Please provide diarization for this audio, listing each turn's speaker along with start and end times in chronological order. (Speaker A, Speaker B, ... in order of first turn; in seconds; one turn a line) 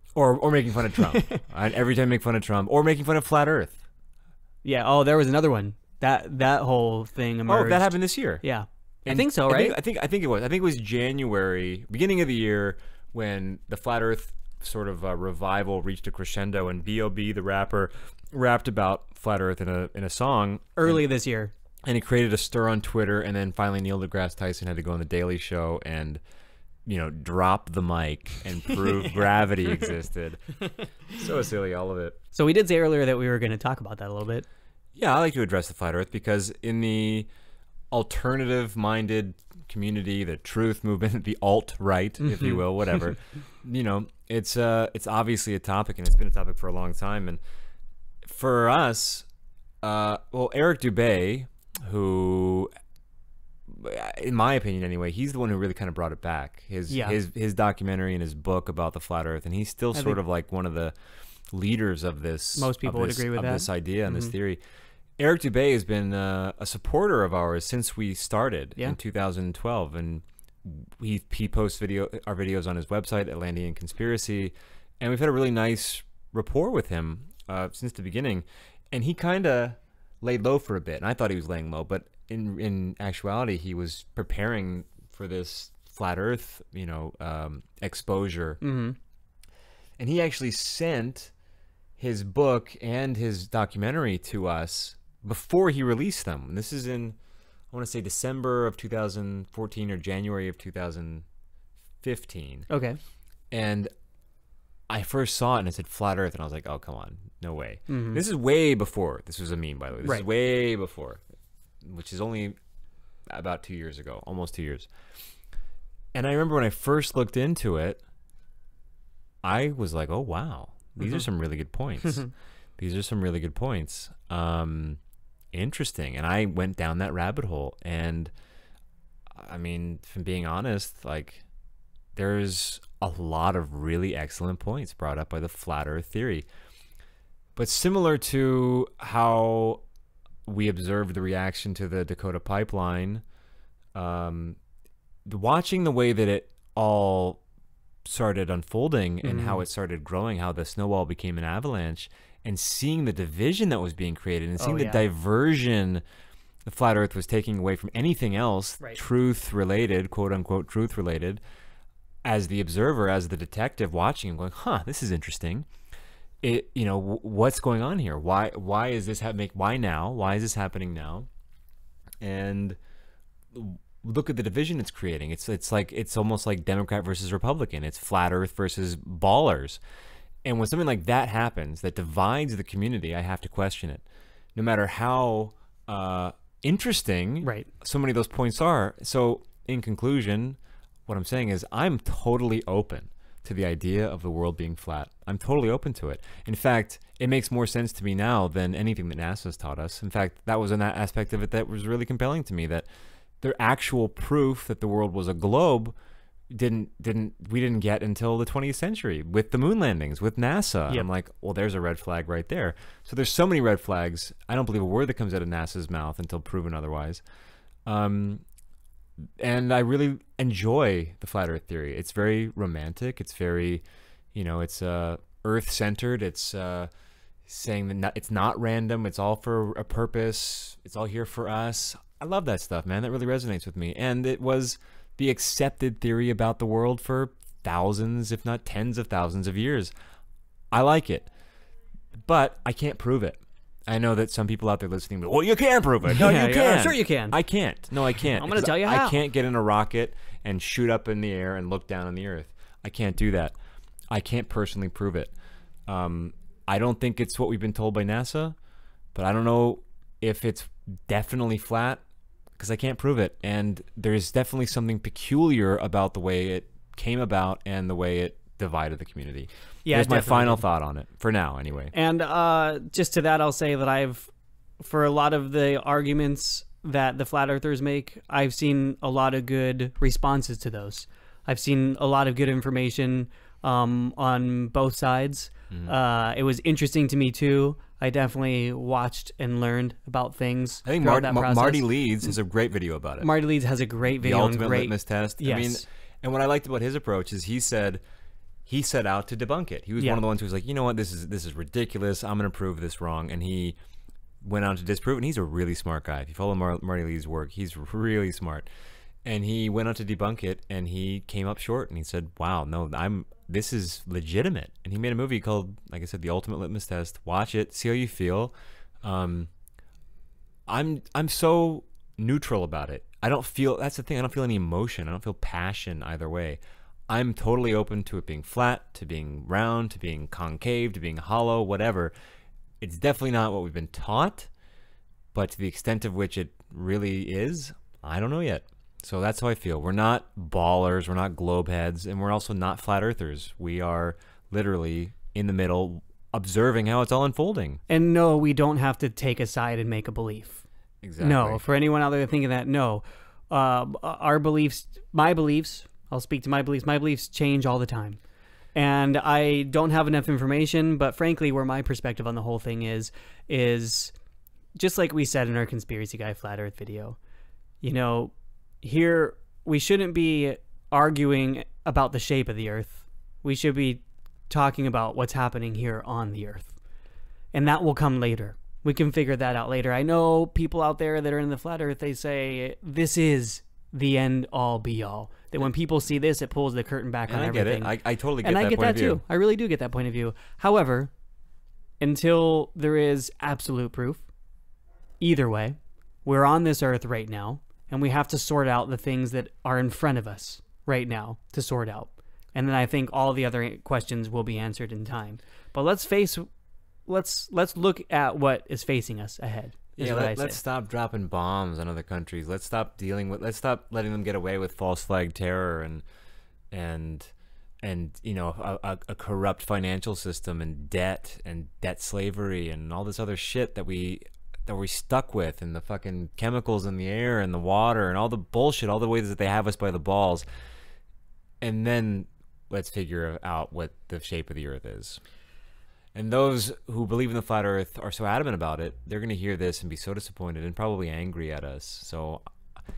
Speaker A: 0.1-3.8
Speaker B: 1.0-1.4
Speaker B: 4.6-9.8
Speaker A: 7.5-8.4
Speaker A: 9.1-21.0
Speaker B: 20.8-21.5
Speaker A: 21.9-26.2
Speaker A: 26.9-32.2
Speaker B: 32.3-34.5
Speaker A: 35.0-37.3
Speaker A: 37.9-47.4
Speaker A: 48.2-49.3
Speaker A: 49.8-52.7
Speaker A: 53.7-61.0
Speaker B: 56.9-57.2
Speaker B: 59.9-60.2
Speaker A: 61.5-64.6
Speaker B: 62.6-64.3
Speaker A: 65.2-88.6
Speaker B: 88.6-89.0
Speaker A: 90.0-91.3
Speaker A: 92.0-97.2
Speaker A: 97.7-101.2
Speaker A: 102.0-102.7
Speaker B: 102.7-103.0
Speaker A: 103.5-103.9
Speaker A: 104.9-111.2
Speaker B: 107.9-108.2
Speaker A: 111.8-112.6
Speaker A: 113.3-114.9
Speaker A: 116.1-118.0
Speaker A: 119.4-122.3
Speaker A: 122.8-125.0
Speaker A: 125.5-128.3
Speaker A: 129.4-131.4
Speaker A: 132.2-136.5
Speaker A: 137.6-139.8
Speaker A: 140.5-143.2
Speaker A: 143.9-144.6
Speaker A: 145.2-147.4
Speaker A: 148.0-156.0
Speaker B: 149.2-149.6
Speaker B: 154.6-155.0
Speaker A: 156.7-161.4
Speaker A: 162.2-165.7
Speaker A: 166.4-171.3
Speaker A: 172.2-172.8
Speaker A: 173.5-179.8
Speaker A: 180.4-202.9
Speaker B: 187.4-187.7
Speaker A: 203.4-205.9
Speaker A: 206.5-217.2
Speaker A: 217.8-218.4
Speaker A: 219.4-223.8
Speaker A: 224.3-226.9
Speaker A: 227.5-239.9
Speaker A: 240.7-241.3
Speaker A: 242.2-253.5
Speaker B: 246.1-247.4
Speaker B: 248.2-249.2
Speaker A: 254.1-255.3
Speaker A: 255.9-258.5
Speaker A: 259.1-262.0
Speaker A: 262.6-271.9
Speaker B: 269.9-270.6
Speaker B: 271.9-292.3
Speaker A: 290.9-293.3
Speaker B: 293.2-295.8
Speaker A: 294.1-298.0
Speaker A: 298.7-303.8
Speaker A: 304.4-308.7
Speaker A: 309.2-319.5
Speaker A: 320.7-332.1
Speaker A: 332.8-334.5
Speaker A: 335.3-347.8
Speaker B: 347.9-350.6
Speaker A: 351.0-351.6
Speaker B: 351.2-358.2
Speaker B: 358.8-364.1
Speaker B: 364.8-367.2
Speaker B: 367.8-376.8
Speaker B: 377.5-391.1
Speaker A: 387.3-389.2
Speaker B: 392.0-394.2
Speaker B: 395.2-406.5
Speaker B: 407.1-410.6
Speaker A: 410.0-416.0
Speaker A: 416.7-417.3
Speaker A: 417.8-430.5
Speaker A: 431.6-435.2
Speaker A: 436.1-442.4